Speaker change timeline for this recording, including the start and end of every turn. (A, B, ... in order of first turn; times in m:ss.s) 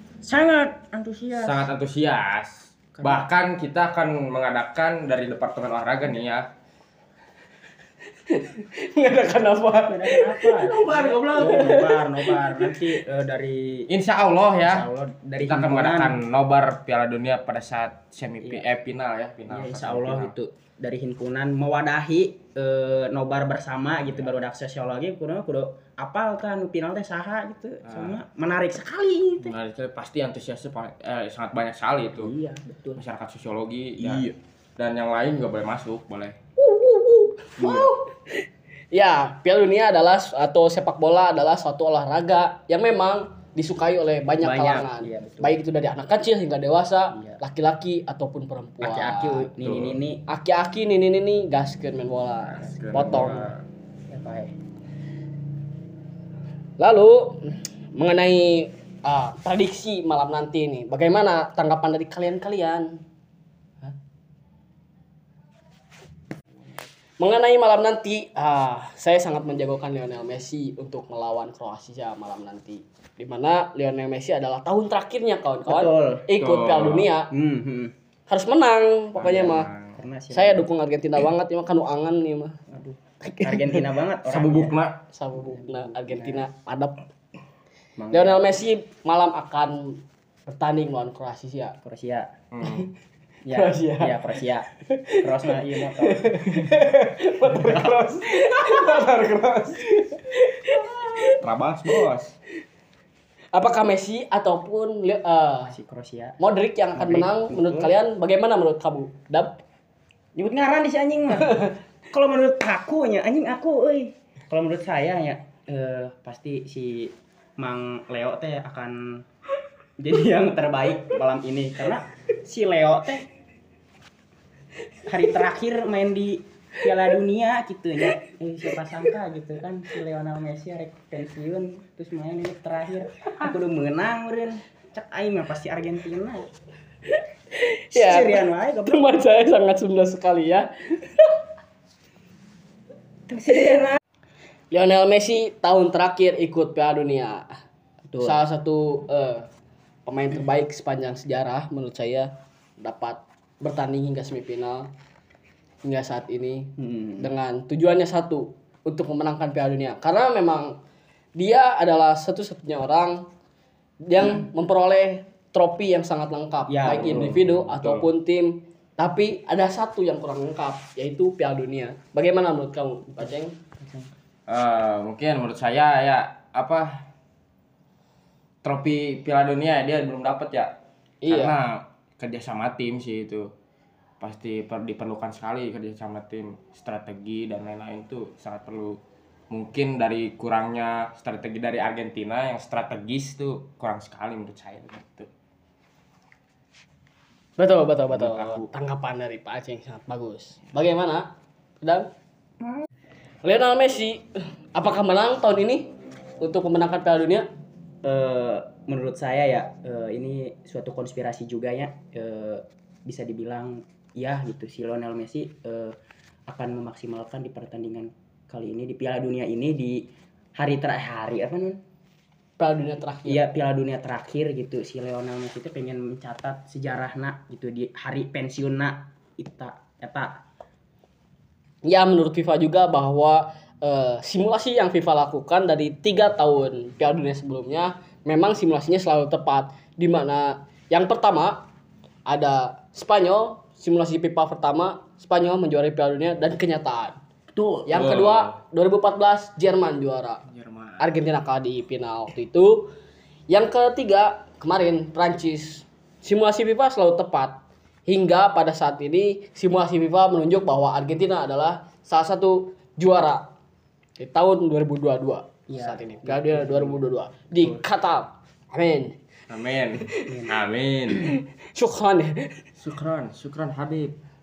0:00.2-0:01.7 A
0:01.3-0:06.5 B
0:03.0-0:03.2 A
0:08.3-0:12.9 C
0:09.7-0:13.9 A
0:10.9-0:11.5 B
0:13.9-0:14.9 B
0:14.6-0:16.2 A
0:15.4-0:20.4 B
0:18.4-0:18.7 A
0:19.5-0:29.6 A
0:27.8-0:28.2 B
0:29.4-0:32.3 B
0:32.2-0:33.0 A
0:33.0-0:36.4 B
0:34.0-0:34.3 A
0:36.6-0:38.1 C
0:37.6-0:37.9 A
0:38.9-0:49.5 C
0:44.4-0:45.6 A
0:47.1-0:47.4 A
0:48.8-0:50.2 A
0:49.6-0:50.0 B
0:50.3-0:53.5 C
0:52.5-0:53.6 B
0:54.1-0:54.5 A
0:56.8-1:03.0 C
1:07.2-1:17.3 C
1:15.7-1:16.3 A
1:16.4-1:17.1 B
1:17.3-1:17.9 A
1:18.3-1:19.7 C
1:19.2-1:20.0 B
1:20.0-1:20.7 A
1:20.3-1:22.6 C
1:22.7-1:24.8 A
1:23.2-1:23.8 C
1:24.3-1:25.0 B
1:25.1-1:27.0 C
1:25.5-1:26.5 A
1:28.0-1:28.4 A
1:28.1-1:31.8 C
1:31.8-1:32.3 A
1:32.5-1:32.9 B
1:33.4-1:34.7 A
1:33.5-1:34.4 C
1:34.9-1:35.4 C
1:35.2-1:36.8 A
1:36.0-1:41.4 C
1:41.4-1:42.3 B
1:43.5-1:45.8 C
1:45.7-1:46.4 A
1:46.4-1:49.6 C
1:46.9-1:47.9 A
1:50.4-1:59.0 A
2:00.0-2:03.2 A
2:05.1-2:16.5 A
2:17.6-2:21.3 C
2:17.9-2:19.1 A
2:23.3-2:24.0 A
2:24.7-2:27.5 C
2:28.1-2:28.4 A
2:28.2-2:29.5 C
2:30.1-2:34.9 C
2:35.8-2:40.8 C
2:36.8-2:37.3 A
2:41.4-2:43.3 C
2:44.1-2:53.5 C
2:44.2-2:44.5 A
2:46.7-2:47.3 A
2:46.9-2:48.1 B
2:53.8-2:54.1 A
2:54.5-2:57.1 B
2:58.6-3:00.7 B
3:01.2-3:01.6 C
3:01.3-3:03.5 B
3:04.2-3:09.0 B
3:09.5-3:15.3 B
3:17.6-3:21.3 C
3:18.1-3:18.7 B
3:21.8-3:22.1 C
3:23.4-3:25.9 C
3:26.4-3:27.5 C
3:28.0-3:36.0 A
3:36.5-3:40.0 A
3:40.6-3:41.8 A
3:42.6-3:43.4 C
3:43.3-3:50.4 A
3:51.8-4:01.7 C
4:02.3-4:07.2 C
4:07.6-4:08.5 B
4:07.9-4:10.4 C
4:10.5-4:11.2 B
4:11.0-4:12.9 C
4:13.5-4:23.5 C
4:24.2-4:29.2 C
4:25.7-4:27.8 A
4:29.5-4:31.4 B
4:30.1-4:30.4 C
4:30.3-4:30.6 A
4:31.7-4:32.5 C
4:32.8-4:34.2 B